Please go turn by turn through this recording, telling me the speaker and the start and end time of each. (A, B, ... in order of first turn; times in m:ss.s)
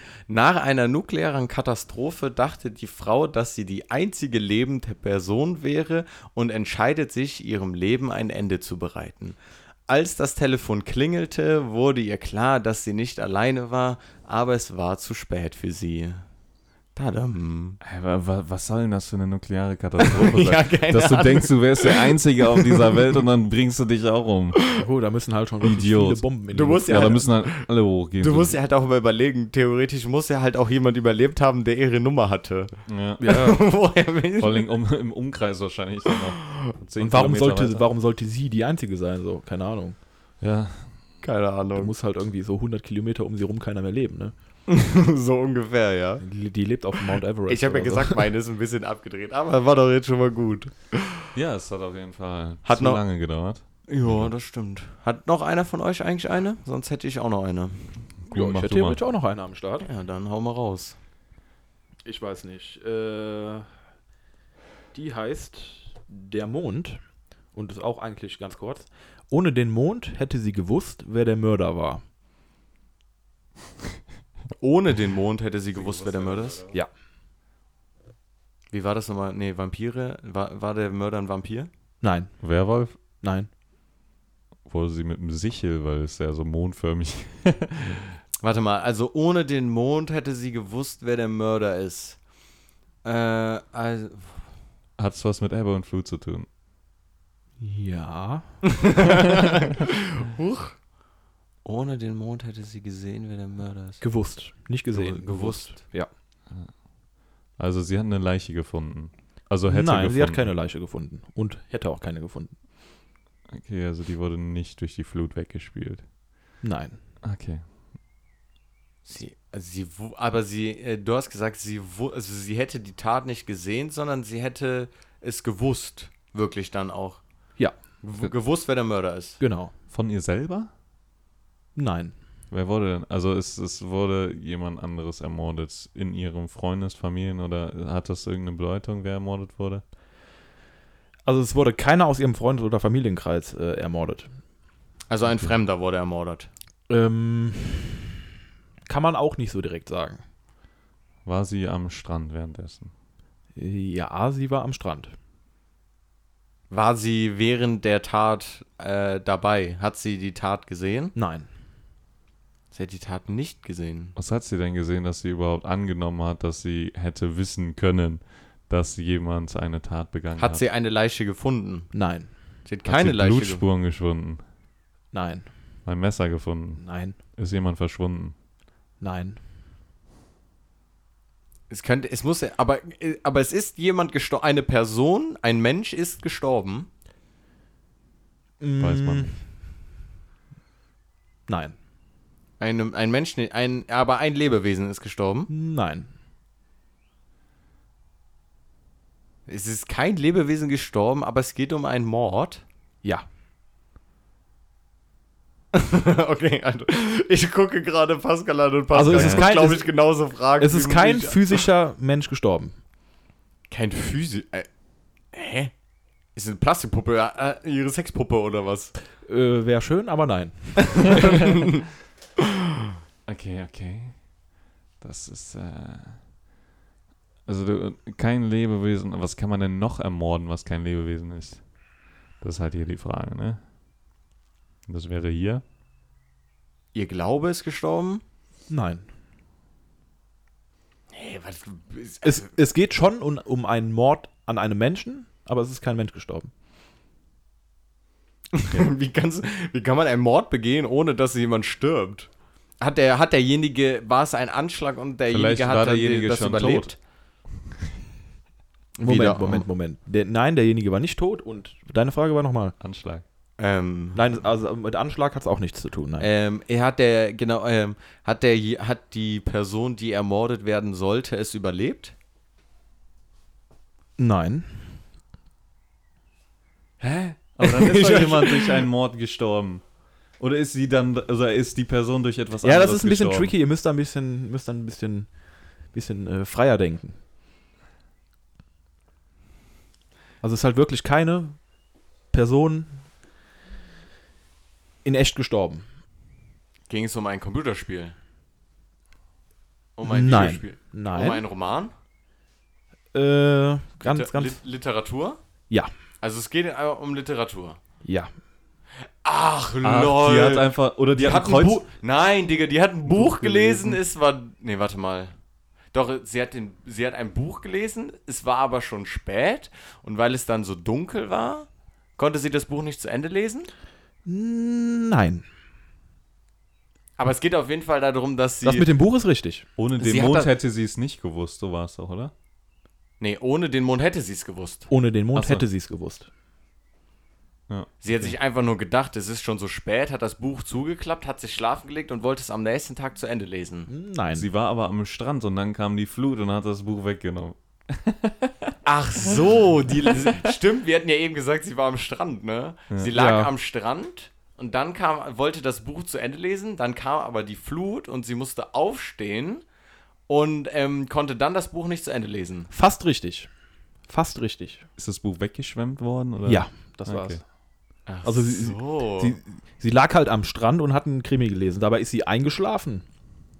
0:00.3-0:16.2 A
0:16.9-0:17.8 A
0:17.8-0:24.6 B
0:20.0-0:23.1 A
0:24.8-0:27.2 C
0:25.6-0:26.2 B
0:26.5-0:27.7 A
0:26.8-0:28.6 B
0:28.2-0:34.7 A
0:32.9-0:33.2 B
0:33.2-0:33.6 C
0:34.4-0:37.9 B
0:37.0-0:40.0 C
0:40.4-0:41.0 B
0:41.2-0:41.9 A
0:41.8-0:44.3 C
0:44.7-0:46.2 A
0:46.2-0:48.2 C
0:47.5-0:51.0 A
0:51.3-0:54.3 B
0:52.6-0:53.0 A
0:53.9-0:57.9 A
0:58.2-0:59.0 B
0:58.3-0:59.8 C
0:59.8-1:01.0 A
1:02.0-1:03.7 C
1:04.9-1:12.0 C
1:14.6-1:16.6 A
1:15.7-1:16.8 B
1:18.7-1:21.7 A
1:22.0-1:22.4 C
1:22.4-1:23.0 B
1:23.2-1:23.5 C
1:24.6-1:28.1 B
1:28.4-1:32.2 A
1:33.0-1:34.4 A
1:35.0-1:36.5 B
1:37.6-1:38.6 C
1:38.8-1:40.8 A
1:41.6-1:44.0 A
1:44.0-1:46.1 C
1:44.9-1:45.9 A
1:47.6-1:50.5 B
1:49.7-1:52.5 C
1:53.5-1:56.0 B
1:56.6-1:57.0 C
1:57.2-1:57.6 B
1:59.0-2:07.2 A
2:08.0-2:09.4 A
2:09.4-2:09.7 C
2:09.9-2:10.7 B
2:11.7-2:12.1 C
2:12.5-2:19.8 B
2:21.2-2:24.3 C
2:25.1-2:26.5 A
2:26.9-2:28.0 C
2:28.8-2:30.2 C
2:31.2-2:32.9 B
2:33.6-2:35.1 C
2:36.7-2:41.1 A
2:41.1-2:41.5 C
2:42.7-2:44.1 A
2:44.2-2:50.6 B
2:50.4-2:53.6 A
2:51.9-2:52.3 C
2:52.8-2:54.4 B
2:55.1-2:55.5 C
2:55.8-2:58.3 B
2:56.8-2:57.2 C
2:59.0-2:59.4 C
3:01.7-3:06.9 A
3:08.6-3:09.4 C
3:08.8-3:09.4 B
3:11.5-3:11.7 C
3:12.6-3:15.5 A
3:15.5-3:16.1 C
3:19.5-3:22.6 A
3:25.7-3:31.6 A
3:28.9-3:29.9 C
3:29.1-3:29.5 B
3:30.6-3:32.8 C
3:33.7-3:34.7 A
3:35.3-3:35.7 A
3:36.3-3:38.9 A
3:39.2-3:41.4 C
3:41.1-3:41.8 A
3:43.2-3:44.3 B
3:45.0-3:46.3 B
3:47.4-3:51.6 B
3:52.4-3:53.6 B
3:54.9-3:55.6 B
3:56.9-3:58.2 A
3:58.7-3:59.0 C
4:01.1-4:02.4 A
4:02.2-4:06.5 C
4:08.5-4:17.0 A
4:15.3-4:16.9 B
4:19.0-4:19.6 A
4:19.0-4:22.8 C
4:22.8-4:23.2 B
4:23.6-4:24.2 A
4:24.1-4:26.3 C
4:26.2-4:32.1 A
4:34.2-4:35.0 C
4:37.0-4:43.5 B
4:37.6-4:38.5 A
4:42.6-4:47.2 C
4:50.4-4:51.6 C
4:52.3-4:53.0 C
4:55.0-4:55.8 C
4:56.9-4:58.1 A
5:00.0-5:01.9 A
5:00.0-5:01.4 C
5:03.1-5:04.6 C
5:04.0-5:05.4 A
5:06.2-5:07.8 A
5:08.0-5:08.3 C
5:09.2-5:15.3 A
5:09.8-5:11.8 B
5:13.1-5:14.0 C
5:15.9-5:23.7 A
5:24.2-5:25.4 C
5:27.2-5:28.9 A
5:28.6-5:29.7 C
5:29.8-5:32.3 B
5:30.0-5:30.5 A
5:33.2-5:34.9 A
5:34.9-5:36.3 C
5:35.3-5:35.6 B
5:37.7-5:38.4 B
5:38.0-5:43.9 A
5:43.9-5:44.4 C
5:44.3-5:50.6 B
5:48.8-5:59.6 A
5:53.1-5:53.5 C
6:00.3-6:02.7 A
6:02.7-6:03.5 C
6:04.1-6:04.9 C
6:05.0-6:07.4 B
6:06.4-6:07.4 C
6:08.0-6:09.4 A
6:08.2-6:13.0 C